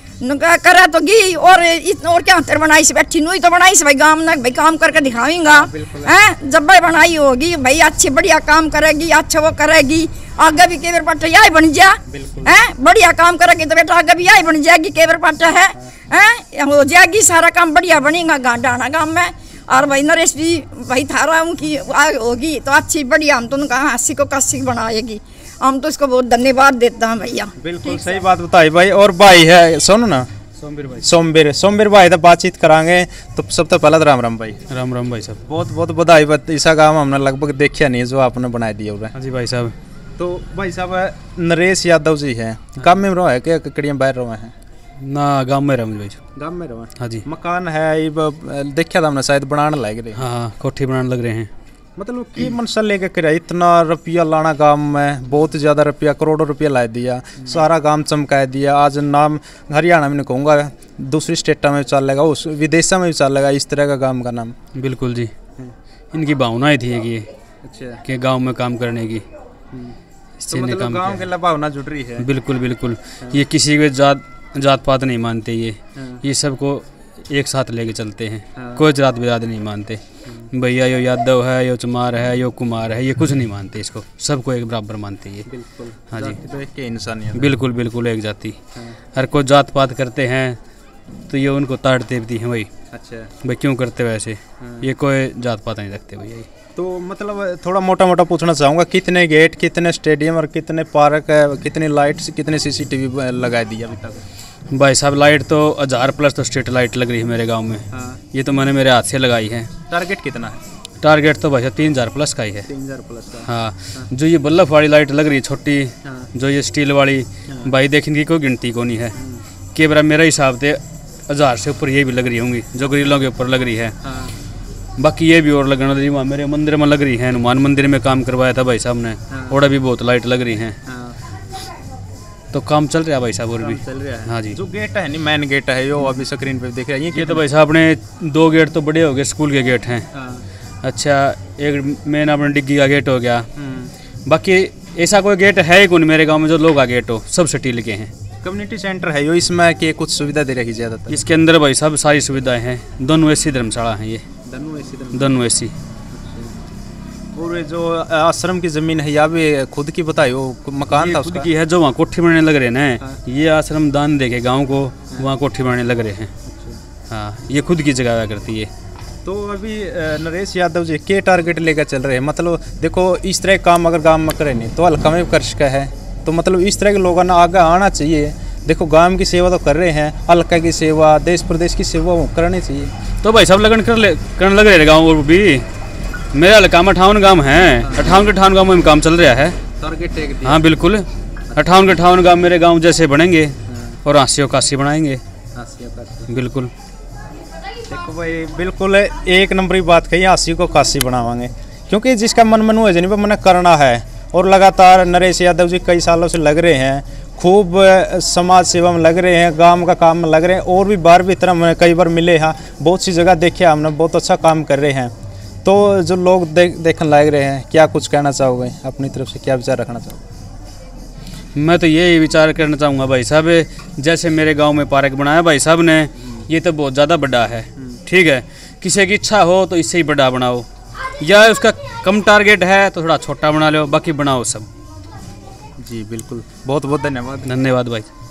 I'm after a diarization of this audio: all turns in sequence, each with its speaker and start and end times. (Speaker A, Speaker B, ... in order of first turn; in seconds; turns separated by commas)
Speaker A: 0.2-28.2, Speaker B: 5.4-6.2, Speaker B: 12.1-12.6, Speaker B: 27.6-30.3, Speaker C: 30.6-31.0, Speaker B: 31.0-34.6, Speaker C: 34.7-35.4, Speaker B: 35.5-39.1, Speaker C: 39.1-39.7, Speaker B: 40.2-44.5, Speaker C: 45.0-46.2, Speaker B: 46.4-50.2, Speaker C: 50.1-51.5, Speaker B: 52.0-64.5, Speaker C: 64.7-65.3, Speaker C: 66.1-67.2, Speaker B: 67.6-68.0, Speaker C: 68.0-69.2, Speaker C: 70.4-71.3, Speaker B: 70.5-72.3, Speaker C: 72.2-80.0, Speaker B: 76.0-76.2, Speaker B: 78.5-78.8, Speaker C: 80.5-85.5, Speaker B: 85.5-87.5, Speaker C: 86.1-86.4, Speaker C: 87.3-88.6, Speaker C: 89.1-90.6, Speaker C: 91.3-92.7, Speaker B: 92.9-93.3, Speaker C: 93.4-96.5, Speaker B: 94.6-94.9, Speaker B: 96.8-104.2, Speaker C: 104.7-109.7, Speaker B: 107.9-108.2, Speaker B: 109.9-110.6, Speaker C: 111.0-112.7, Speaker B: 112.7-114.1, Speaker C: 113.5-119.1, Speaker B: 116.0-116.3, Speaker B: 119.1-119.4, Speaker C: 119.7-124.0, Speaker B: 124.0-124.3, Speaker C: 125.0-130.8, Speaker B: 129.3-129.6, Speaker B: 130.8-131.2, Speaker C: 132.5-134.6, Speaker B: 133.6-137.4, Speaker C: 137.1-140.1, Speaker B: 140.1-140.4, Speaker C: 140.8-143.4, Speaker B: 143.6-143.9, Speaker C: 144.3-148.1, Speaker B: 148.4-151.2, Speaker C: 151.1-154.2, Speaker B: 154.4-155.4, Speaker C: 155.1-155.7, Speaker B: 156.1-156.5, Speaker B: 157.3-161.5, Speaker C: 160.9-166.3, Speaker B: 166.4-166.8, Speaker C: 167.1-168.7, Speaker B: 169.2-182.9, Speaker C: 183.2-185.6, Speaker C: 186.3-189.6, Speaker B: 187.8-188.3, Speaker B: 189.8-190.7, Speaker C: 190.4-195.2, Speaker B: 191.5-191.9, Speaker B: 193.7-194.0, Speaker B: 195.5-196.3, Speaker C: 196.3-196.7, Speaker B: 197.9-215.1, Speaker B: 215.6-220.2, Speaker C: 221.5-230.7, Speaker C: 231.2-234.7, Speaker B: 235.8-237.5, Speaker C: 237.4-238.1